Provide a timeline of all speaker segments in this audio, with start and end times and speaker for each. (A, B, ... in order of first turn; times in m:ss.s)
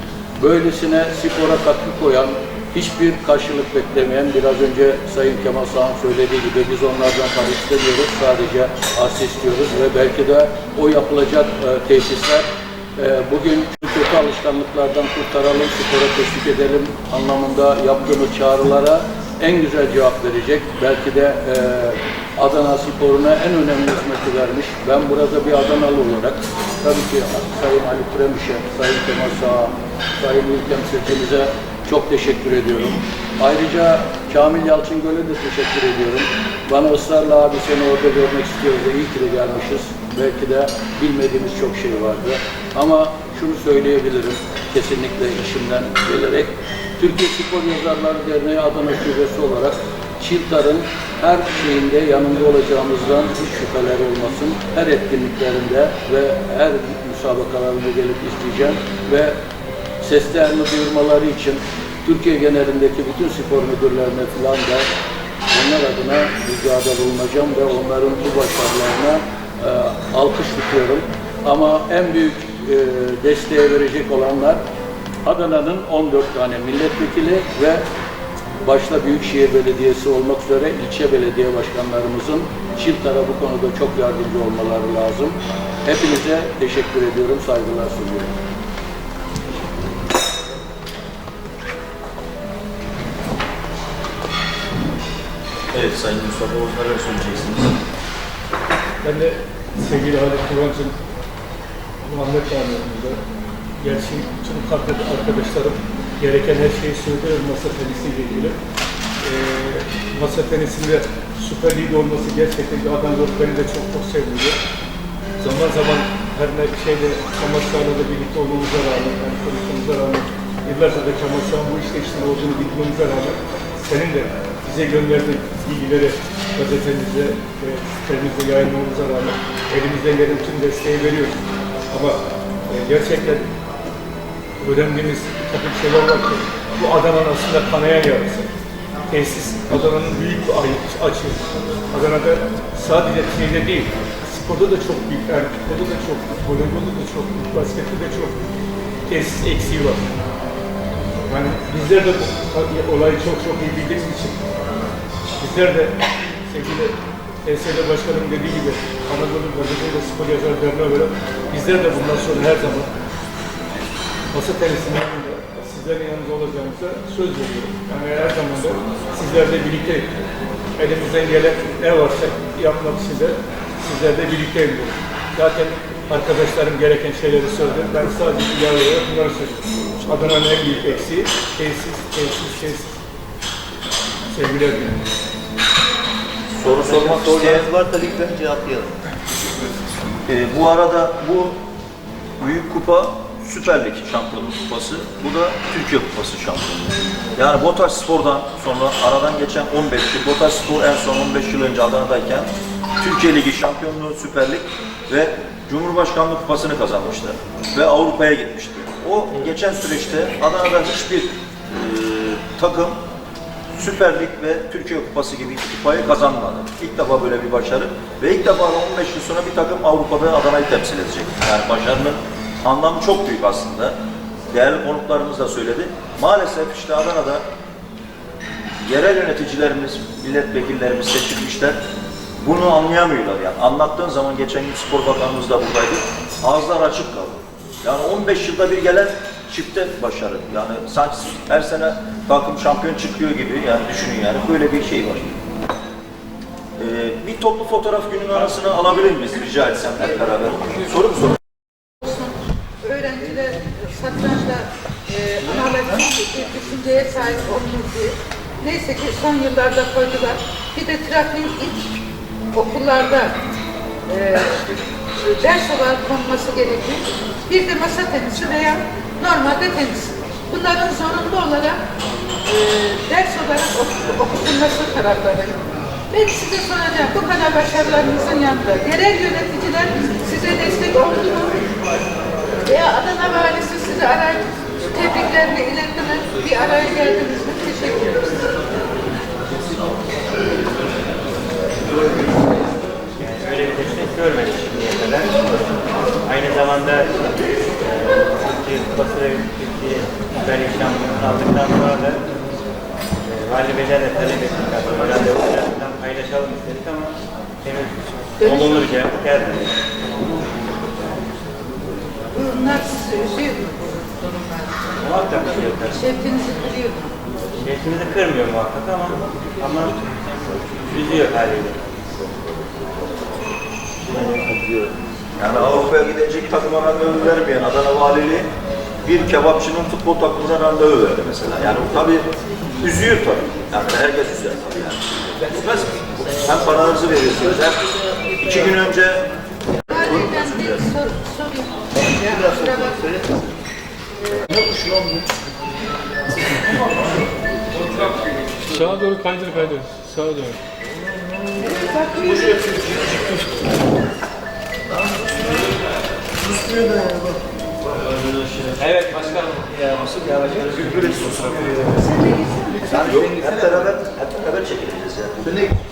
0:00.4-0:59.4 A
1:00.0-1:04.9 A
1:05.5-1:14.6 A
1:15.2-1:17.8 A
1:18.6-1:28.3 A
1:35.7-1:37.8 B
1:39.0-1:40.9 C
1:42.0-1:43.2 C
1:43.8-1:48.6 C
1:49.2-1:54.6 C
1:55.4-2:11.4 C
2:11.9-2:13.4 C
2:14.6-2:18.5 C
2:19.1-2:28.4 C
2:29.1-2:30.1 C
2:31.3-2:34.4 C
2:35.4-2:42.9 C
2:44.3-2:50.1 C
2:50.8-3:03.0 C
3:04.3-3:05.0 C
3:06.5-3:07.7 B
3:06.6-3:08.9 D
3:10.3-3:11.6 B
3:12.4-3:33.0 B
3:33.7-3:43.9 B
3:44.5-3:47.4 B
3:48.8-3:51.8 B
3:52.4-4:05.4 B
4:06.8-4:11.4 B
4:12.0-4:22.0 E
4:22.5-4:23.4 E
4:24.1-4:31.8 E
4:32.4-4:35.6 E
4:36.1-4:41.7 E
4:42.6-4:48.7 E
4:53.2-4:55.5 F
4:56.2-5:02.2 F
5:03.2-5:10.2 F
5:08.4-5:08.8 E
5:12.3-5:14.9 E
5:15.0-5:16.1 F
5:15.9-5:17.1 E
5:17.6-5:20.0 F
5:20.8-5:21.9 F
5:24.5-5:24.9 D
5:25.4-5:28.5 B
5:29.0-5:32.2 B
5:32.8-5:39.2 B
5:39.9-5:40.9 B
5:39.9-5:43.2 E
5:42.0-5:43.3 D
5:44.5-5:45.0 B
5:48.7-5:50.6 C
5:52.5-5:53.2 B
5:54.9-5:55.7 B
5:56.4-6:02.0 B
6:02.2-6:02.6 E
6:02.7-6:03.8 D
6:02.8-6:05.7 B